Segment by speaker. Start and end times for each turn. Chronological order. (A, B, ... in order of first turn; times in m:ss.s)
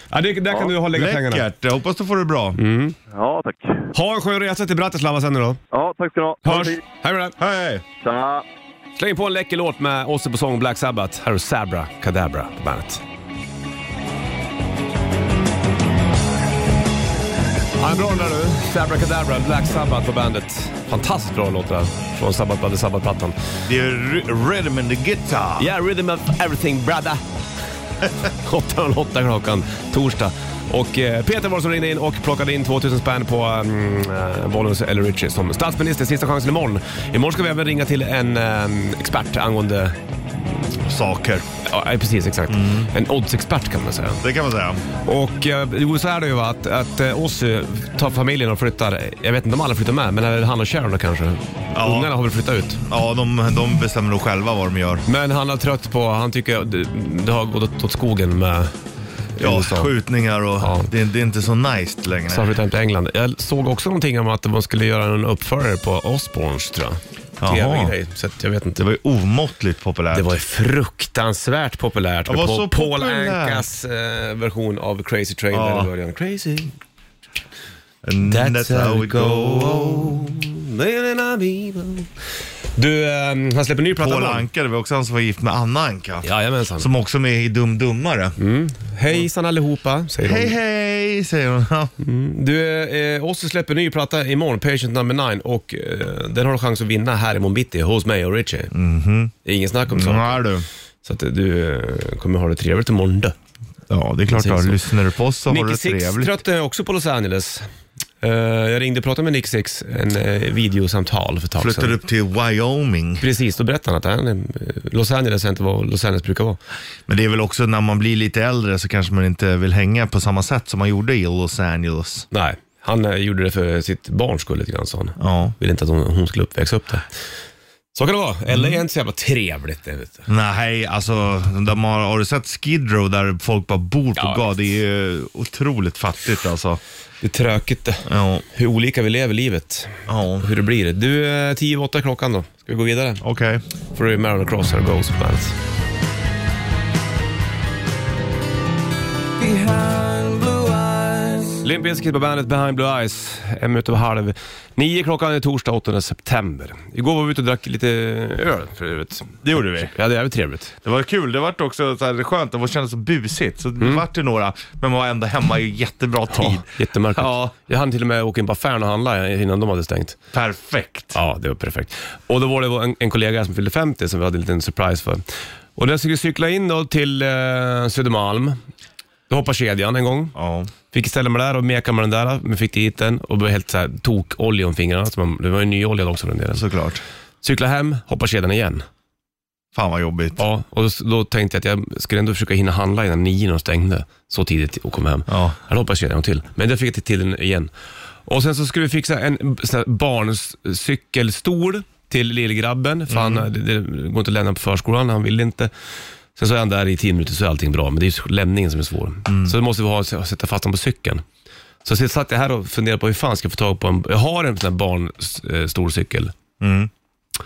0:00.1-0:01.4 A
0:00.8-0:02.6 B
0:02.6-0:03.0 A
0:03.1-0:03.8 C
0:03.9-0:05.6 A
0:05.7-0:06.8 C
0:06.4-0:07.4 A
0:07.4-0:07.8 B
0:08.0-0:08.4 C
0:09.0-0:13.0 A
0:17.8-0:23.4 A
0:23.7-0:25.7 B
0:25.6-0:27.2 A
0:28.2-0:40.8 A
0:40.8-0:41.5 B
0:41.6-0:44.2 A
0:42.5-0:42.9 B
0:44.2-0:44.8 B
0:45.0-0:52.8 A
0:51.7-0:52.1 B
0:52.9-0:55.0 B
0:55.1-0:58.7 A
0:59.4-0:59.9 A
0:59.4-1:02.5 B
1:00.6-1:00.9 A
1:02.3-1:08.8 A
1:07.4-1:08.0 B
1:08.8-1:10.3 B
1:10.1-1:16.7 A
1:12.3-1:13.7 B
1:15.5-1:15.9 B
1:18.0-1:20.4 B
1:18.2-1:22.1 A
1:22.8-1:24.5 A
1:24.0-1:28.4 B
1:26.2-1:26.9 A
1:28.4-1:30.6 A
1:30.2-1:31.9 B
1:32.0-1:38.7 A
1:38.7-1:39.3 B
1:39.4-1:40.4 A
1:39.9-1:40.7 B
1:41.0-1:43.4 A
1:43.9-1:46.4 B
1:44.3-1:44.8 A
1:45.5-1:47.7 A
1:48.2-1:52.0 A
1:51.6-1:53.2 B
1:53.2-1:56.6 A
1:57.1-2:02.3 B
2:02.3-2:07.1 A
2:05.2-2:05.6 B
2:07.9-2:10.3 A
2:08.5-2:08.8 B
2:10.3-2:16.8 B
2:14.2-2:14.5 A
2:17.2-2:23.2 A
2:18.1-2:18.4 B
2:20.1-2:20.5 B
2:23.2-2:23.6 B
2:24.0-2:25.6 A
2:31.4-2:40.8 A
2:39.4-2:39.9 B
2:40.8-2:47.5 B
2:43.8-2:44.0 A
2:46.3-2:50.2 A
2:50.3-2:51.2 B
2:51.1-2:55.2 A
2:55.8-2:58.6 A
2:59.3-3:00.4 A
3:00.4-3:00.7 B
3:00.9-3:06.7 A
3:06.5-3:07.0 B
3:07.4-3:08.9 A
3:09.7-3:10.4 B
3:10.4-3:17.7 A
3:15.3-3:15.6 B
3:18.3-3:25.7 A
3:23.1-3:23.5 B
3:26.4-3:31.2 A
3:29.3-3:29.6 B
3:31.8-3:36.4 A
3:36.6-3:36.9 B